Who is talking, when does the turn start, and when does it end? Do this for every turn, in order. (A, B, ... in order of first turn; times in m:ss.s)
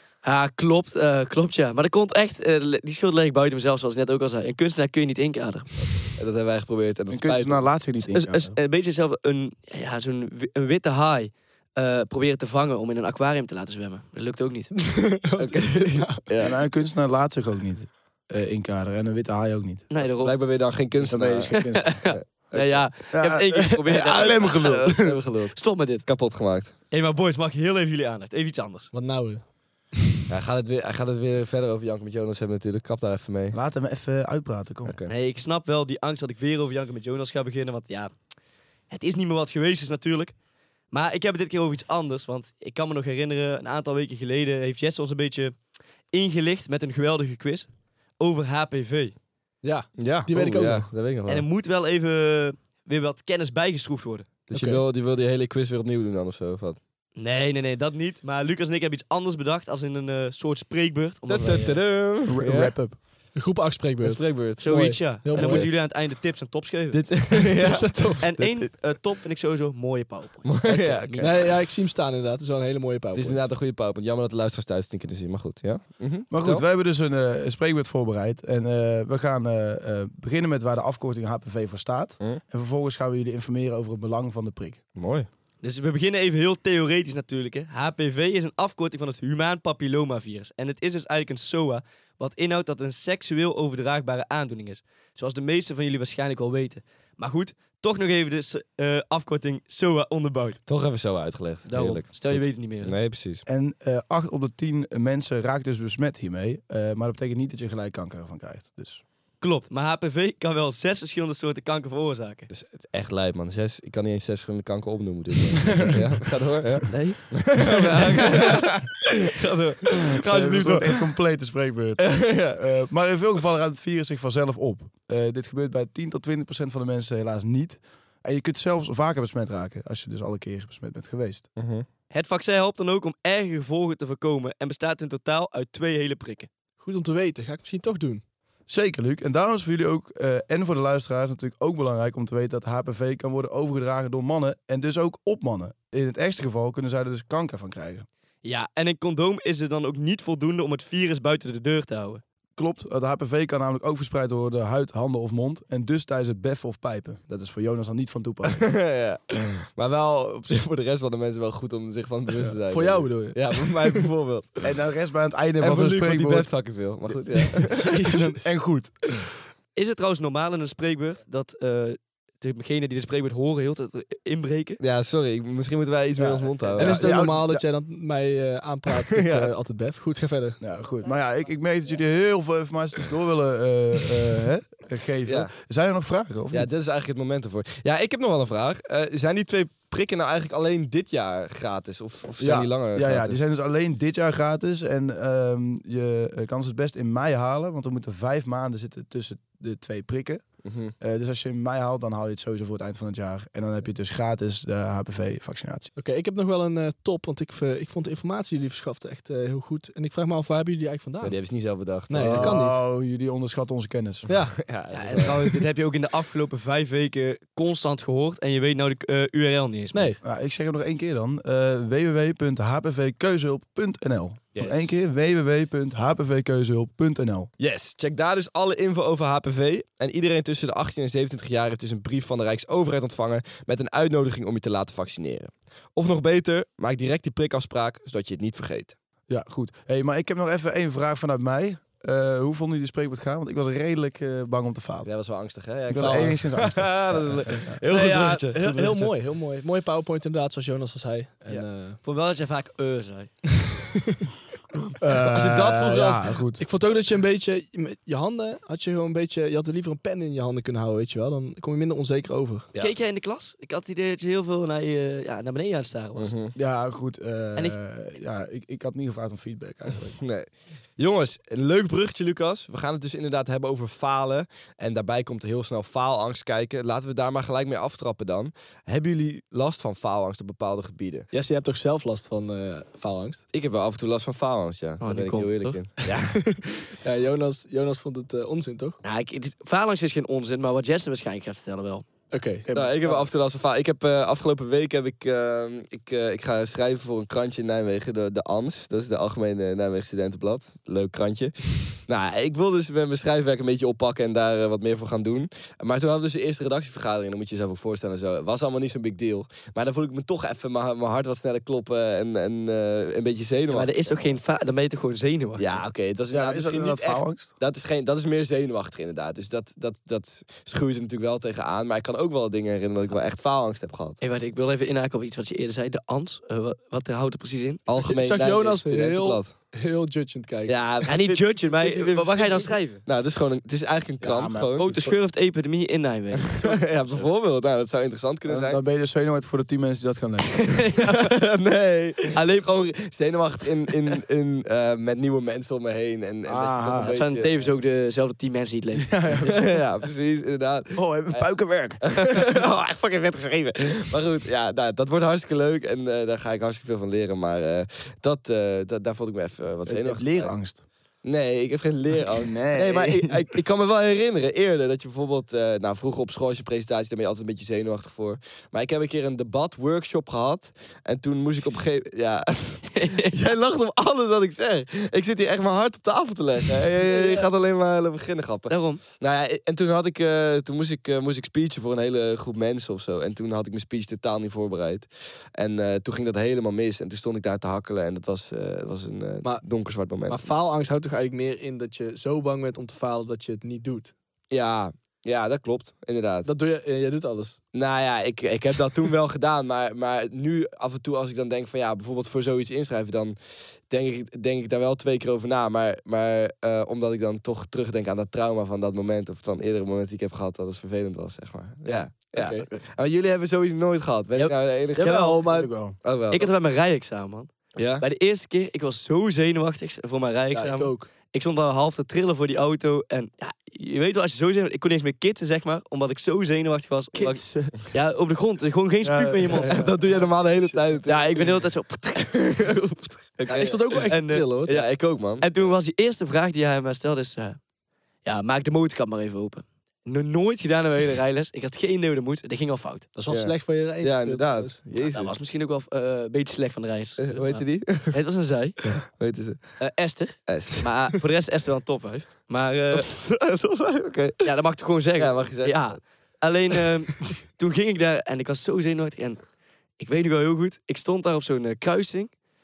0:00.2-0:06.1 A
0:06.1-0:07.6 B
0:07.1-0:08.6 C
0:08.1-0:15.2 A
0:14.8-0:16.2 D
0:15.4-0:16.6 B
0:16.4-0:19.9 C
0:19.9-0:20.3 A
0:20.2-0:22.9 B
0:21.0-0:22.1 C
0:21.5-0:25.0 A
0:23.1-0:25.2 C
0:24.4-0:26.7 B
0:25.5-0:26.0 A
0:26.9-0:28.9 A
0:28.9-0:29.5 D
0:30.3-0:33.6 B
0:33.5-0:35.0 C
0:34.8-0:35.1 B
0:35.1-0:38.1 A
0:38.9-0:40.3 A
0:40.9-0:45.5 A
0:46.1-0:49.1 A
0:49.6-0:50.9 D
0:50.0-0:51.4 B
0:51.3-0:54.3 A
0:54.5-0:56.8 B
0:54.5-0:54.8 D
0:57.2-1:01.8 A
1:01.3-1:02.7 B
1:02.2-1:03.0 C
1:03.3-1:05.7 D
1:04.0-1:05.7 B
1:04.6-1:07.0 A
1:06.9-1:08.7 B
1:07.3-1:08.3 D
1:08.2-1:11.5 A
1:10.4-1:11.5 B
1:11.2-1:13.5 D
1:13.1-1:16.6 B
1:16.3-1:24.8 C
1:24.9-1:25.3 B
1:25.6-1:40.6 A
1:40.6-1:43.4 B
1:41.6-1:42.9 A
1:43.4-1:49.0 C
1:49.4-1:52.5 A
1:52.5-2:01.1 B
1:56.9-1:58.7 A
2:00.2-2:11.5 C
2:02.0-2:02.6 B
2:11.6-2:11.8 B
2:12.1-2:16.5 A
2:16.8-2:18.2 D
2:18.7-2:28.0 C
2:28.4-2:32.2 A
2:32.6-2:38.7 C
2:38.4-2:44.7 B
2:42.7-2:44.0 D
2:44.6-2:46.5 C
2:45.6-2:48.0 B
2:47.6-2:49.2 C
2:47.8-2:48.4 D
2:49.7-2:54.8 A
2:54.8-2:57.3 B
2:56.2-2:57.6 C
2:56.8-3:00.6 D
2:59.0-2:59.5 B
3:00.6-3:06.7 C
3:05.2-3:05.5 B
3:06.5-3:13.4 B
3:12.4-3:25.9 C
3:20.6-3:20.9 B
3:26.0-3:31.3 D
3:31.2-3:32.6 B
3:32.1-3:32.8 D
3:32.2-3:34.3 C
3:34.3-3:34.5 D
3:34.6-3:35.6 B
3:34.9-3:40.1 A
3:40.2-3:47.5 C
3:44.6-3:45.0 B
3:47.6-3:58.9 B
3:59.3-4:05.1 C
4:05.0-4:09.0 B
4:05.9-4:07.8 C
4:05.9-4:06.4 D
4:07.9-4:12.0 D
4:08.7-4:09.1 C
4:12.0-4:13.3 A
4:15.0-4:16.6 C
4:15.2-4:22.7 D
4:22.8-4:26.3 A
4:26.2-4:26.5 B
4:26.5-4:30.2 C
4:30.2-4:41.3 B
4:41.3-4:43.4 D
4:43.5-4:46.5 B
4:45.0-4:45.8 A
4:46.1-4:49.0 D
4:49.0-4:52.1 A
4:52.3-4:53.2 D
4:52.6-4:52.9 C
4:52.7-5:14.3 B
5:13.7-5:15.8 A
5:15.6-5:24.2 B
5:16.3-5:17.5 C
5:24.2-5:27.8 A
5:27.9-5:29.5 B
5:27.9-5:30.8 D
5:30.7-5:35.0 B
5:31.0-5:33.0 A
5:31.7-5:32.7 C
5:34.2-5:35.1 C
5:34.7-5:36.8 A
5:36.4-5:38.8 B
5:38.5-5:40.8 C
5:40.6-5:41.3 A
5:41.1-5:47.7 B
5:42.3-5:42.6 A
5:46.4-5:47.1 C
5:47.0-5:49.6 A
5:49.0-5:49.8 C
5:49.4-5:51.5 B
5:50.9-5:52.6 C
5:52.0-6:00.5 B
5:59.8-6:00.8 C
6:01.2-6:30.5 B
6:02.3-6:03.3 C
6:12.9-6:13.4 A
6:17.0-6:17.5 A
6:18.7-6:19.0 A
6:30.2-6:34.1 D
6:34.5-6:36.5 B
6:36.4-6:37.6 D
6:37.7-6:43.4 B
6:43.9-6:55.4 B
6:51.8-6:52.7 D
6:54.4-6:55.7 D
6:55.0-6:55.4 A
6:55.5-6:56.0 C
6:56.0-6:56.5 B
6:56.3-7:09.9 A
6:57.7-6:58.0 B
7:00.5-7:01.1 D
7:09.0-7:09.7 C
7:09.5-7:11.6 B
7:10.0-7:10.8 D
7:11.0-7:12.4 A
7:12.2-7:14.1 B
7:13.5-7:14.7 D
7:13.9-7:17.6 A
7:14.7-7:15.6 B
7:18.2-7:23.1 A
7:23.1-7:24.8 D
7:23.3-7:25.4 B
7:25.0-7:28.8 A
7:27.2-7:28.2 B
7:28.9-7:29.8 B
7:29.8-7:33.1 A
7:30.5-7:30.9 B
7:32.9-7:34.5 B
7:34.4-7:39.4 A
7:35.2-7:36.0 B
7:40.0-7:42.3 A